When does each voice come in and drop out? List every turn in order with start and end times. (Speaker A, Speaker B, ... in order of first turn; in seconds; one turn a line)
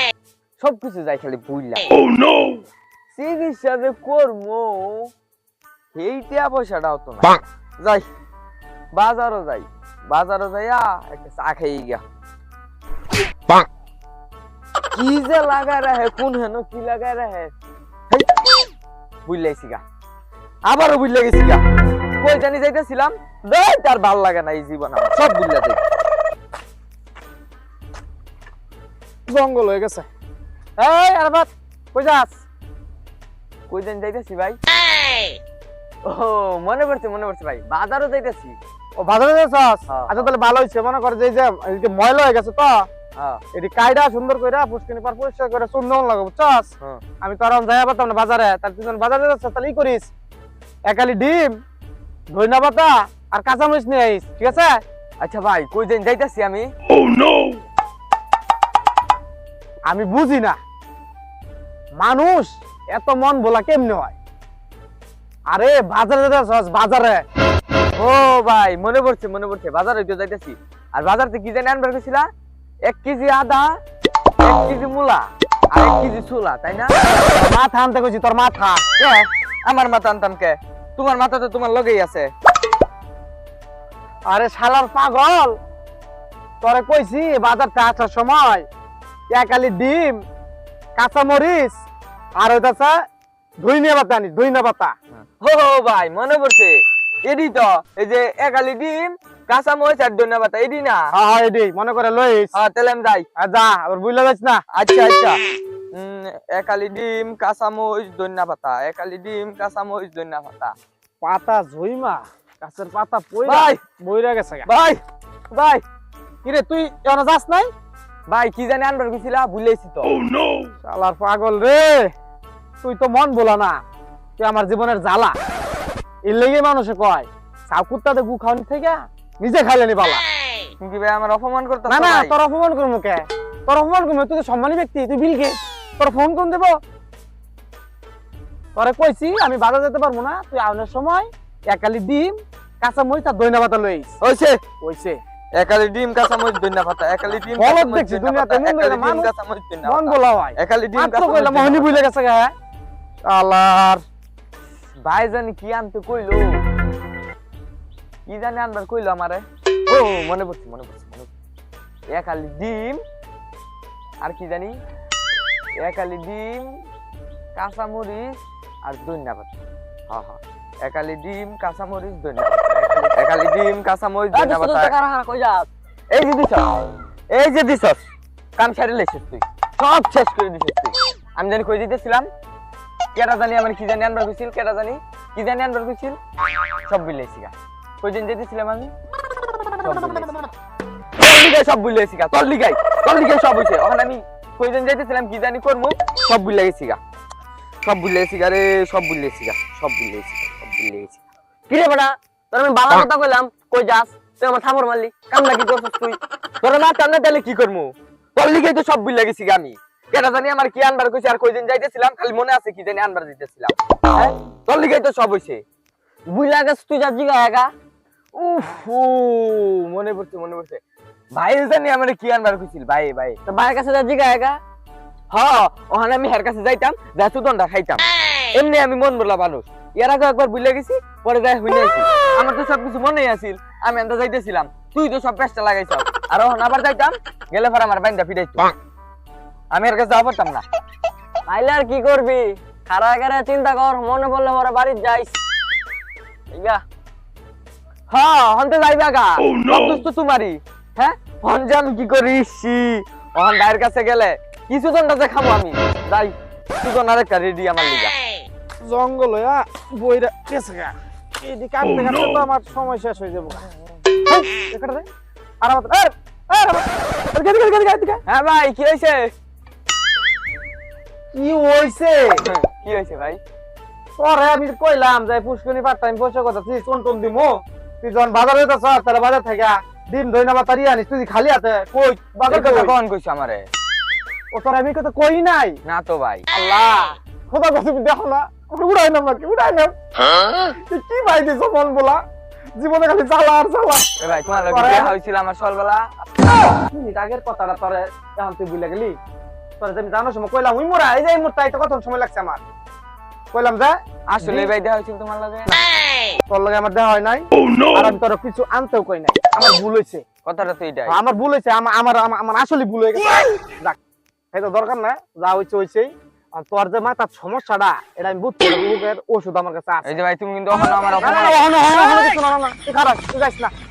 Speaker A: 0.6-1.9
Speaker A: 3.1-5.1
Speaker A: 5.9-8.1
Speaker A: 8.9-12.0
Speaker A: 14.9-17.5
Speaker A: 19.2-19.8
Speaker A: 20.6-21.6
Speaker A: 22.2-25.8
Speaker B: 29.3-30.1
Speaker B: 30.8-32.4
Speaker A: 33.7-34.6
Speaker A: 36.0-38.6
Speaker B: 39.0-42.9
Speaker A: 39.9-40.3
Speaker B: 43.5-50.1
Speaker B: 50.9-51.6
Speaker B: 52.3-54.8
Speaker A: 55.2-56.7
Speaker B: 59.9-60.6
Speaker B: 62.0-64.1
Speaker B: 65.5-67.2
Speaker A: 68.0-72.3
Speaker A: 72.9-73.8
Speaker A: 74.4-77.0
Speaker B: 77.3-78.8
Speaker A: 79.0-82.3
Speaker B: 84.3-85.6
Speaker B: 86.6-88.7
Speaker B: 89.3-90.2
Speaker B: 91.0-91.8
Speaker B: 92.4-93.0
Speaker B: 93.6-94.9
Speaker A: 95.4-101.1
Speaker B: 101.1-102.5
Speaker A: 102.5-103.2
Speaker B: 103.4-104.6
Speaker A: 104.7-105.4
Speaker A: 105.9-110.7
Speaker B: 111.2-114.7
Speaker A: 113.4-113.8
Speaker A: 114.7-115.0
Speaker A: 115.5-115.8
Speaker B: 116.4-117.7
Speaker A: 118.3-120.2
Speaker B: 120.8-122.1
Speaker B: 122.8-123.8
Speaker B: 124.4-125.3
Speaker B: 126.3-130.2
Speaker A: 130.8-132.3
Speaker B: 131.9-136.8
Speaker B: 138.8-144.2
Speaker A: 144.2-144.6
Speaker B: 144.8-145.2
Speaker A: 145.6-152.0
Speaker B: 147.6-149.3
Speaker B: 149.8-152.5
Speaker B: 153.3-154.0
Speaker A: 155.0-156.6
Speaker A: 158.3-161.3
Speaker A: 162.1-163.0
Speaker A: 164.2-164.7
Speaker A: 165.8-166.8
Speaker A: 167.5-169.5
Speaker A: 170.1-174.9
Speaker C: 174.3-175.7
Speaker A: 176.1-176.7
Speaker A: 177.3-178.0
Speaker A: 178.6-182.3
Speaker A: 183.1-186.2
Speaker A: 186.9-188.9
Speaker A: 189.8-190.5
Speaker A: 191.2-197.0
Speaker A: 197.8-201.2
Speaker C: 201.7-206.2
Speaker A: 206.6-215.6
Speaker C: 216.3-217.7
Speaker A: 218.3-220.8
Speaker A: 221.3-223.4
Speaker C: 223.4-224.6
Speaker A: 225.3-238.7
Speaker A: 239.7-240.6
Speaker C: 241.5-245.4
Speaker C: 246.5-246.8
Speaker A: 248.1-258.1
Speaker B: 258.8-263.6
Speaker B: 264.3-265.1
Speaker B: 265.6-268.2
Speaker A: 268.2-269.3
Speaker B: 271.3-272.4
Speaker A: 272.4-273.4
Speaker B: 274.2-282.9
Speaker A: 282.5-283.7
Speaker B: 284.5-285.8
Speaker A: 285.9-286.4
Speaker B: 286.5-289.9
Speaker B: 290.6-292.2
Speaker B: 292.8-295.1
Speaker A: 294.2-296.1
Speaker B: 296.7-299.2
Speaker B: 299.8-302.6
Speaker B: 303.5-304.7
Speaker A: 304.3-305.7
Speaker B: 306.5-310.2
Speaker A: 310.4-311.2
Speaker B: 311.1-314.0
Speaker B: 314.5-320.2
Speaker A: 320.0-321.6
Speaker B: 321.2-323.7